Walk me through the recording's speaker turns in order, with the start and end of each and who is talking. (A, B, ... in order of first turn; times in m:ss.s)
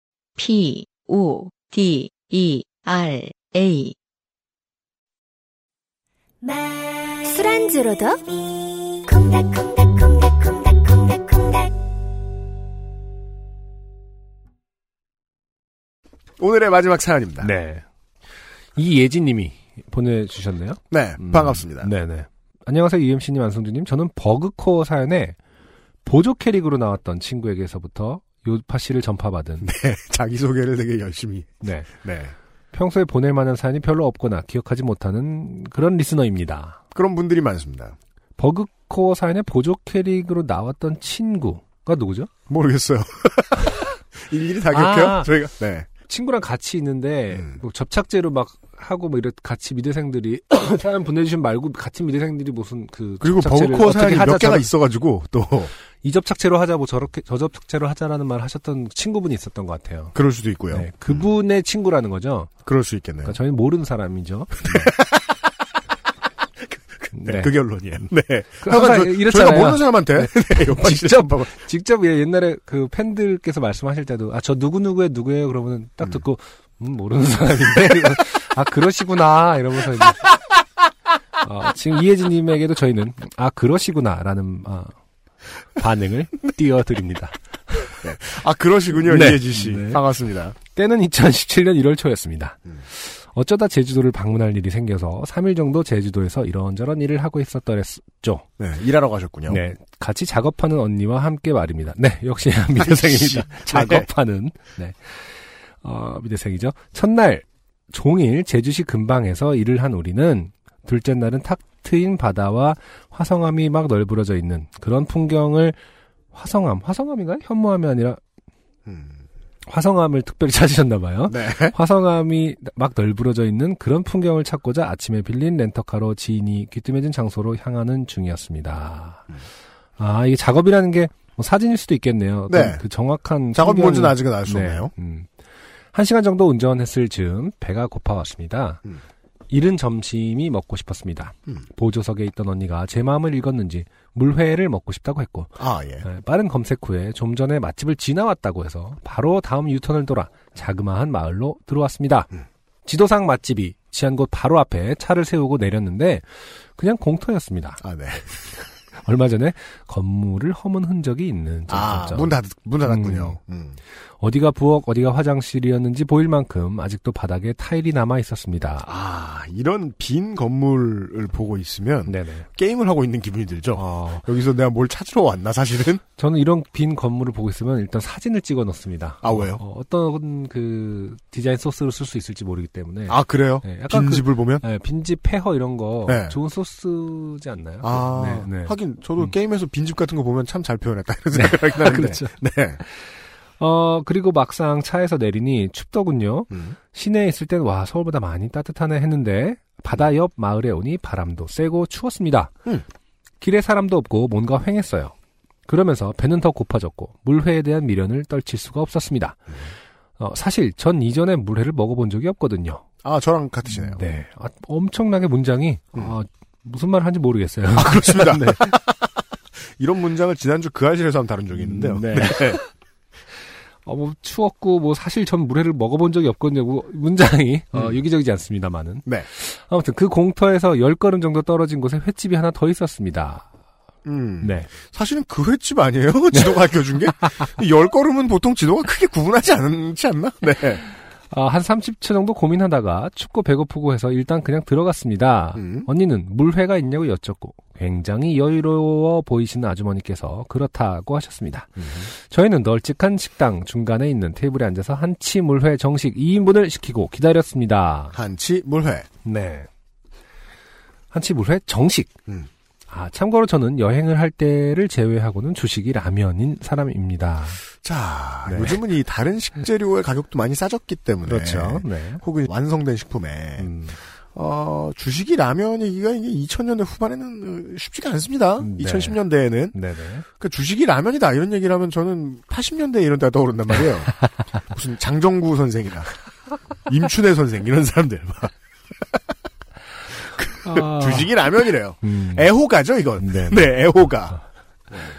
0:00.4-0:04.0 A
0:06.4-0:08.2 B
0:09.0-0:11.7 B
0:09.1-0:09.7 A
0:16.4-0:17.5 C
0:17.4-0:17.8 D
0:18.8-0:25.4 D
0:20.9-0:21.9 C
0:26.0-0:29.7 D
0:29.6-0:32.3 C
0:31.6-0:31.9 D
0:32.7-0:36.8 D
0:36.9-0:38.0 C
0:38.4-0:42.3 D
0:42.5-0:45.9 C
0:44.7-0:45.3 D
0:46.1-0:54.7 D
0:47.3-0:47.6 C
0:53.2-0:55.7 C
0:56.0-1:00.2 D
1:00.2-1:01.2 C
1:00.7-1:02.5 D
1:02.7-1:03.4 C
1:03.2-1:04.9 D
1:04.6-1:05.3 C
1:07.0-1:11.5 C
1:07.1-1:07.5 D
1:08.6-1:20.3 D
1:21.4-1:24.9 D
1:25.8-1:28.0 D
1:28.0-1:30.6 C
1:29.0-1:30.0 D
1:30.6-1:38.5 D
1:38.6-1:39.6 C
1:39.5-1:55.8 D
1:42.8-1:44.1 C
1:56.3-1:58.2 D
1:58.9-1:59.2 C
1:59.7-2:09.3 D
2:01.3-2:01.8 C
2:10.0-2:15.3 D
2:12.5-2:12.8 C
2:13.5-2:14.9 C
2:15.9-2:18.8 D
2:19.5-2:32.3 D
2:25.6-2:26.1 C
2:32.8-2:37.8 D
2:37.8-2:38.5 C
2:39.0-2:43.4 D
2:41.7-2:43.8 C
2:44.2-2:48.9 D
2:48.8-2:56.0 C
2:52.1-2:52.5 D
2:53.8-2:54.2 D
2:56.2-3:09.3 D
2:59.2-2:59.6 C
3:03.1-3:04.6 C
3:06.1-3:06.4 C
3:07.8-3:12.8 C
3:11.3-3:12.3 D
3:12.8-3:22.5 D
3:23.4-3:25.1 D
3:25.7-3:29.6 D
3:30.2-3:32.8 D
3:33.0-3:34.0 C
3:33.7-3:38.7 D
3:37.8-3:39.2 C
3:39.8-3:42.6 C
3:41.6-3:42.7 D
3:43.8-3:53.5 D
3:54.0-4:00.8 C
3:54.4-3:54.7 D
4:01.3-4:18.2 D
4:05.6-4:05.9 C
4:11.8-4:12.1 C
4:18.1-4:19.1 C
4:19.2-4:19.7 D
4:21.1-4:22.1 D
4:22.9-4:27.6 D
4:27.8-4:39.8 C
4:28.5-4:28.8 D
4:31.3-4:32.2 D
4:33.6-4:34.0 D
4:38.6-4:39.2 D
4:39.7-4:40.3 D
4:40.4-4:46.1 C
4:46.9-4:48.5 C
4:50.4-4:54.4 C
4:50.6-4:51.3 D
4:52.0-4:52.5 D
4:53.2-4:54.1 D